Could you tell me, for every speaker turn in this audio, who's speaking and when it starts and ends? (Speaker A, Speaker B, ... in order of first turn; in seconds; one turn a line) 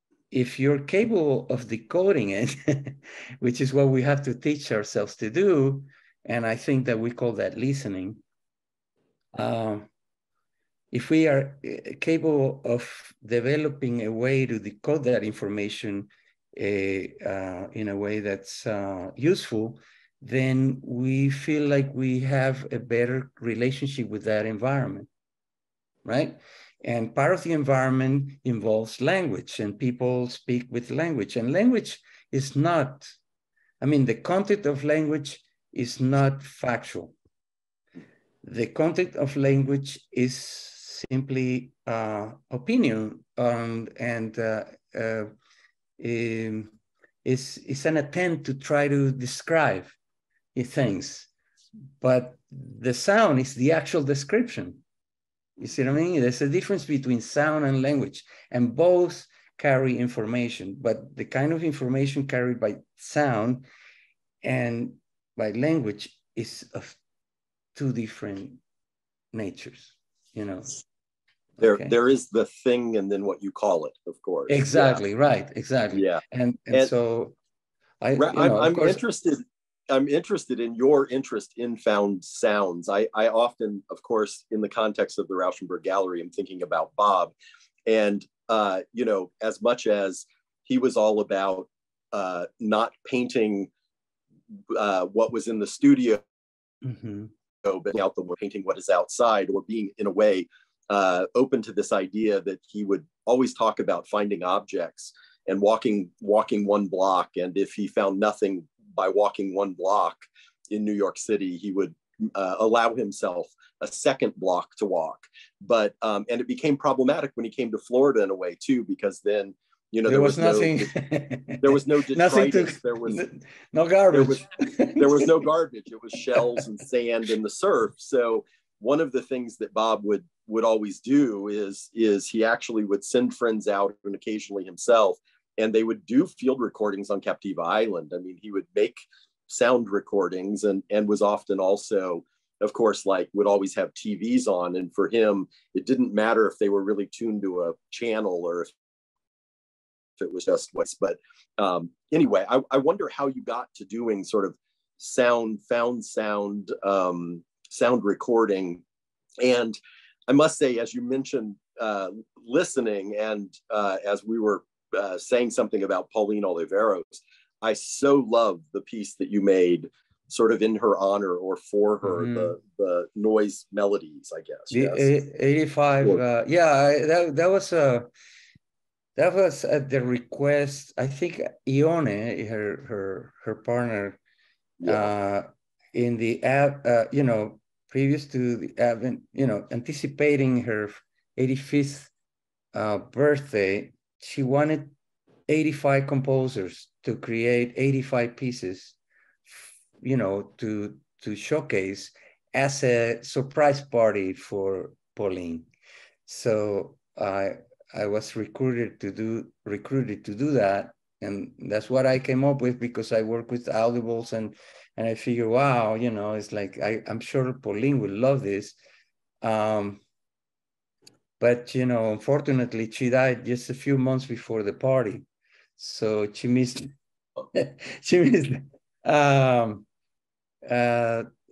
Speaker A: 0.3-8.2
Speaker A: 9.3-9.9
Speaker A: 10.9-25.1
Speaker A: 26.0-33.1
Speaker A: 33.8-37.1
Speaker A: 38.4-45.3
Speaker A: 46.0-46.7
Speaker A: 47.2-50.0
Speaker A: 50.5-51.3
Speaker A: 52.0-54.8
Speaker A: 55.6-63.6
Speaker A: 64.4-67.0
Speaker A: 67.7-68.6
Speaker A: 69.3-70.8
Speaker B: 71.6-75.0
Speaker A: 71.6-71.9
Speaker A: 74.5-77.3
Speaker B: 75.9-76.9
Speaker A: 78.0-79.0
Speaker B: 78.2-87.3
Speaker B: 87.8-93.7
Speaker B: 94.7-96.2
Speaker A: 96.8-97.3
Speaker B: 97.6-120.9
Speaker A: 120.0-125.3
Speaker B: 121.6-123.2
Speaker B: 124.1-148.7
Speaker B: 150.2-158.8
Speaker B: 159.4-175.1
Speaker A: 172.0-172.5
Speaker A: 174.7-178.1
Speaker A: 179.2-184.2
Speaker B: 184.8-185.1
Speaker A: 184.8-192.1
Speaker A: 192.7-194.9
Speaker A: 195.5-198.9
Speaker A: 199.5-205.7
Speaker A: 206.2-218.8
Speaker A: 219.4-220.0
Speaker A: 221.4-225.2
Speaker A: 225.8-226.9
Speaker A: 227.5-229.8
Speaker A: 230.7-231.3